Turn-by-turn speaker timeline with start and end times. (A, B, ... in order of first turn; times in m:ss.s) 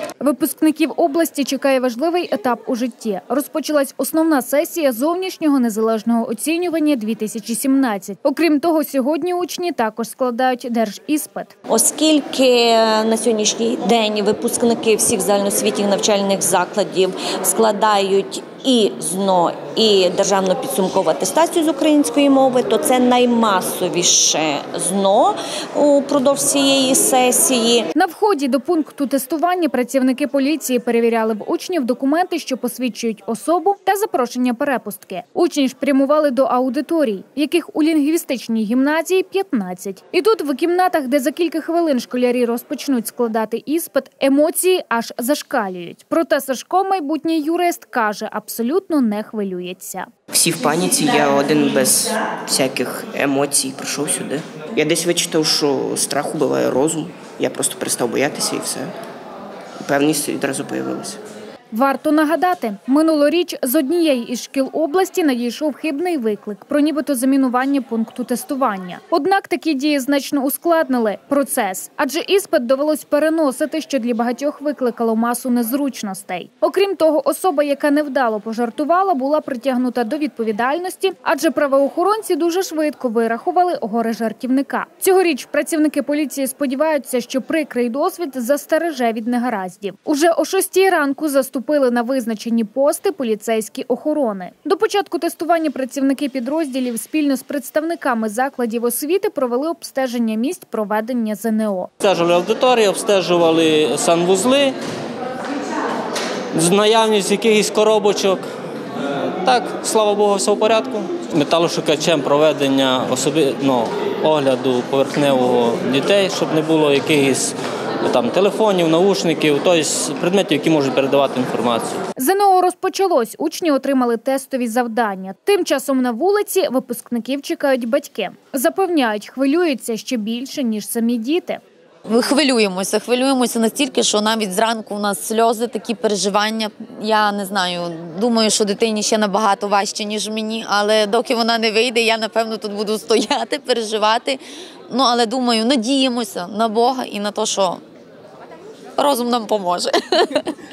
0:00.2-0:11.5 A
0:11.7-0:27.8 B
0:27.9-0:50.1 A
0:50.3-0:58.9 C
0:59.8-1:01.2 C
1:01.7-1:41.9 A
1:42.0-1:44.7 D
1:46.5-1:48.4 D
1:49.1-2:02.0 D
2:02.2-2:11.6 A
2:12.1-2:27.8 E
2:29.0-2:30.5 E